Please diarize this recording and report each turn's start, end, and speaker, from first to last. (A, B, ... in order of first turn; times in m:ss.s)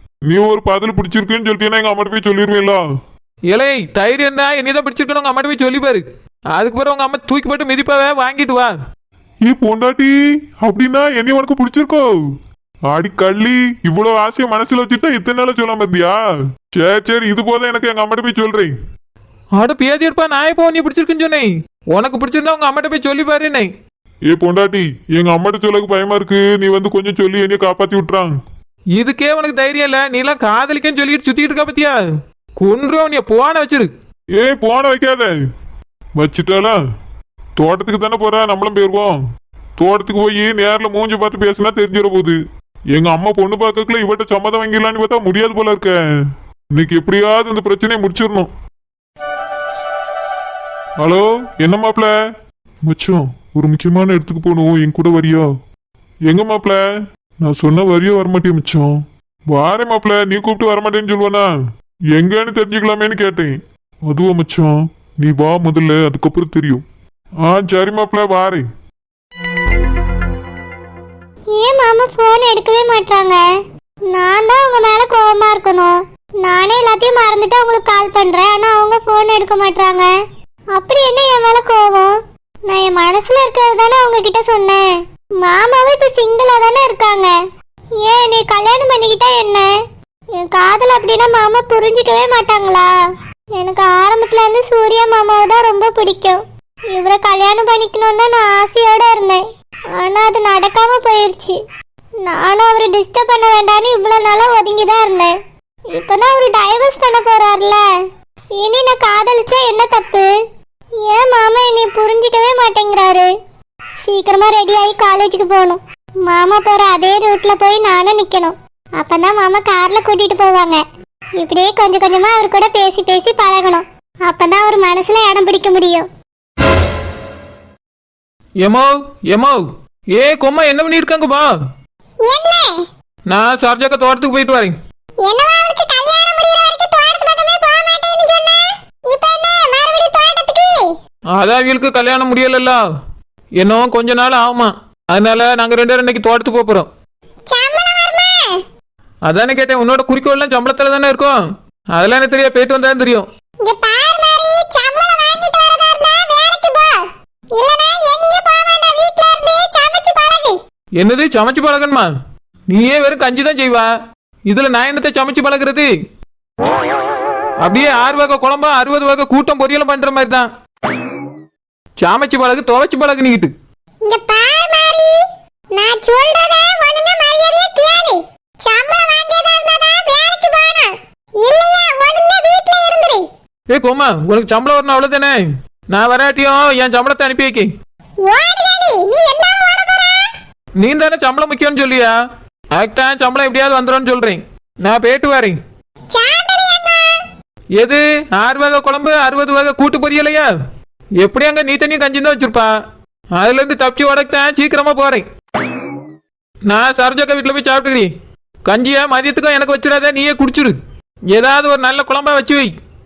0:00.2-0:02.8 A
0:03.5-0:08.8 B
0:09.4-0:12.1 A
0:12.8-0:18.7 A
0:19.6-0:23.7 B
0:24.3-0:28.4 A
0:29.0-0:32.0 B
0:32.6-0:33.9 B
0:34.4-0:35.3 A
0:36.2-0:36.8 A
0:37.6-0:39.2 A
0:39.8-0:42.4 A
0:42.9-0:46.0 A
0:46.7-0:48.5 A
0:51.0-0:52.1 A
0:52.8-0:55.5 A
0:56.3-0:56.8 A
0:57.4-1:01.5 A
1:02.1-1:06.8 A
1:07.4-1:08.6 A
1:11.5-1:13.4 C
1:14.1-1:20.1 C
1:20.7-1:22.1 C
1:22.7-1:24.8 C
1:25.4-1:27.3 C
1:28.0-1:29.7 C
1:30.3-1:32.9 C
1:33.5-1:39.4 C
1:39.9-1:41.6 C
1:42.2-1:45.3 C
1:45.9-1:47.8 C
1:48.6-1:50.3 C
1:51.0-1:53.3 C
1:54.0-2:00.8 C
2:01.4-2:06.0 C
2:08.6-2:11.6 B
2:12.2-2:12.8 C
2:13.3-2:14.8 B
2:15.2-2:20.9 C
2:21.3-2:22.8 B
2:23.6-2:26.9 B
2:27.5-2:28.6 C
2:29.2-2:31.4 B
2:31.9-2:33.3 B
2:33.6-2:40.6 C
2:41.0-2:42.1 B
2:42.7-2:43.9 B
2:44.5-2:45.9 B
2:47.6-2:50.5 B
2:52.0-2:53.5 B
2:54.0-2:55.2 C
2:55.7-3:03.3 C
3:03.7-3:07.7 B
3:08.2-3:10.3 C
3:10.8-3:12.1 B
3:12.7-3:15.6 B
3:16.1-3:17.2 C
3:17.8-3:20.5 B
3:21.2-3:22.7 B
3:23.3-3:25.3 B
3:26.7-3:28.1 B
3:28.6-3:30.8 B
3:31.3-3:32.7 B